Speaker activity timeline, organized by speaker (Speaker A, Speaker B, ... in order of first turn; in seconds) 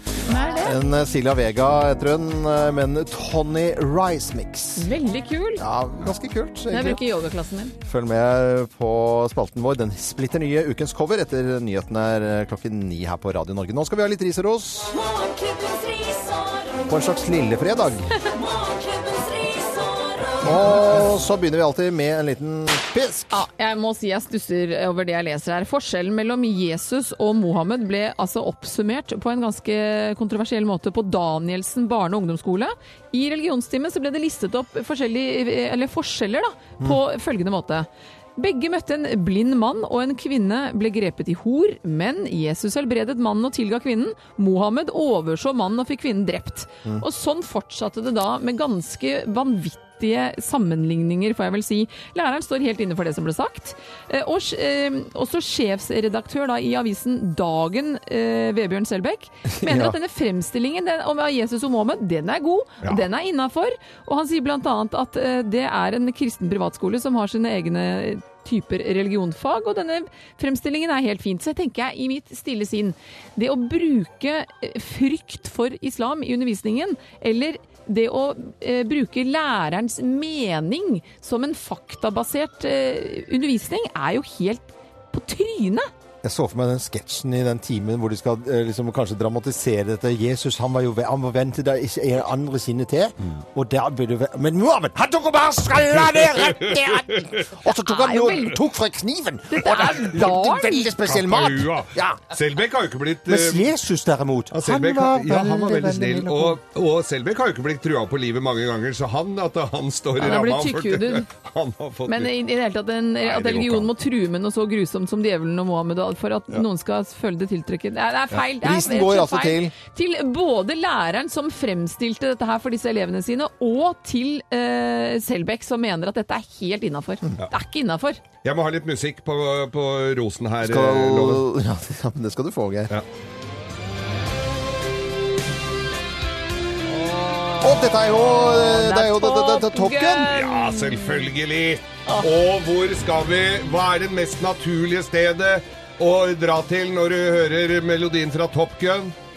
Speaker A: 0.2-0.8, 4.8-5.6, 6.7-7.8, 23.3-85.9, 97.8-98.6, 99.5-100.9, 110.2-111.3, 112.1-128.2, 138.2-141.3
Speaker B: 0.6-4.9, 5.6-7.0, 7.8-15.0, 16.9-18.1, 20.4-23.5, 59.5-60.0, 86.2-102.3, 103.3-106.6, 118.4-119.7, 130.6-132.9, 137.6-140.3
Speaker C: 15.0-16.8, 18.4-20.4
Speaker D: 96.2-97.5, 101.0-103.7, 104.5-112.3, 113.2-113.9, 128.4-131.4, 137.2-137.5, 140.3-149.1